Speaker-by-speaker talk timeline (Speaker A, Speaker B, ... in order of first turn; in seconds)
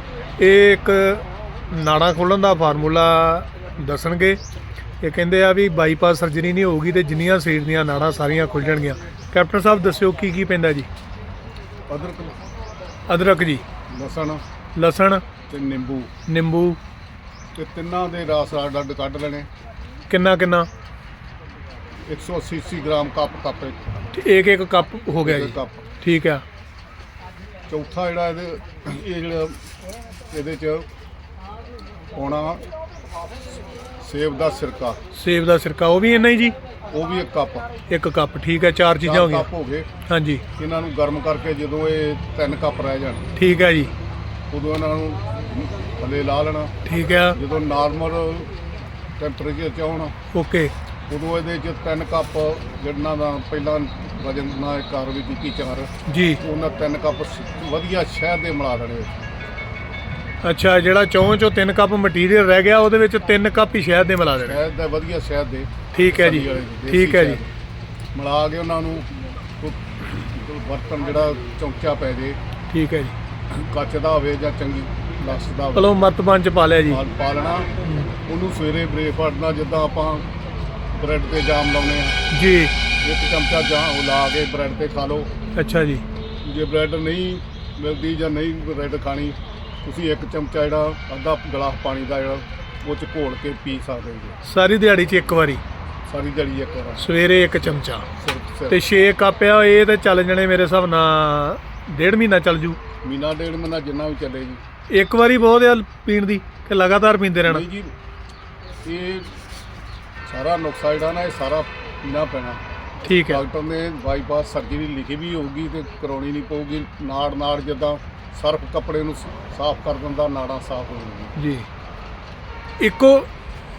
Speaker A: 0.4-4.4, 5.0-10.9, 13.1-13.6, 14.8-15.2, 16.3-16.8, 20.1-20.7, 24.1-26.4, 35.1-36.5, 37.9-39.5, 40.1-40.4, 43.4-43.9, 46.8-47.4, 50.3-50.7, 56.1-56.4, 60.4-64.6, 65.9-67.4, 72.7-73.1, 75.7-77.0, 82.3-82.7, 85.5-86.0, 94.4-95.6, 97.0-98.1, 98.7-102.8, 104.9-107.6, 113.0-113.4, 121.4-121.7, 122.8-123.3
Speaker B: 11.9-12.3, 13.9-14.4, 15.5-16.1, 17.5-19.5, 22.1-24.0, 25.2-25.8, 27.7-29.6, 30.3-30.9, 32.1-32.6, 34.0-35.0, 36.9-37.7, 39.0-39.9, 40.6-43.2, 44.5-46.7, 47.3-48.5, 49.2-50.1, 51.1-59.2, 64.4-67.5, 68.1-72.4, 73.5-76.0, 76.9-77.7, 78.3-80.2, 80.9-82.2, 83.0-85.3, 86.4-94.4, 96.1-98.8, 103.0-104.6, 107.4-107.9, 108.8-109.3, 110.2-121.3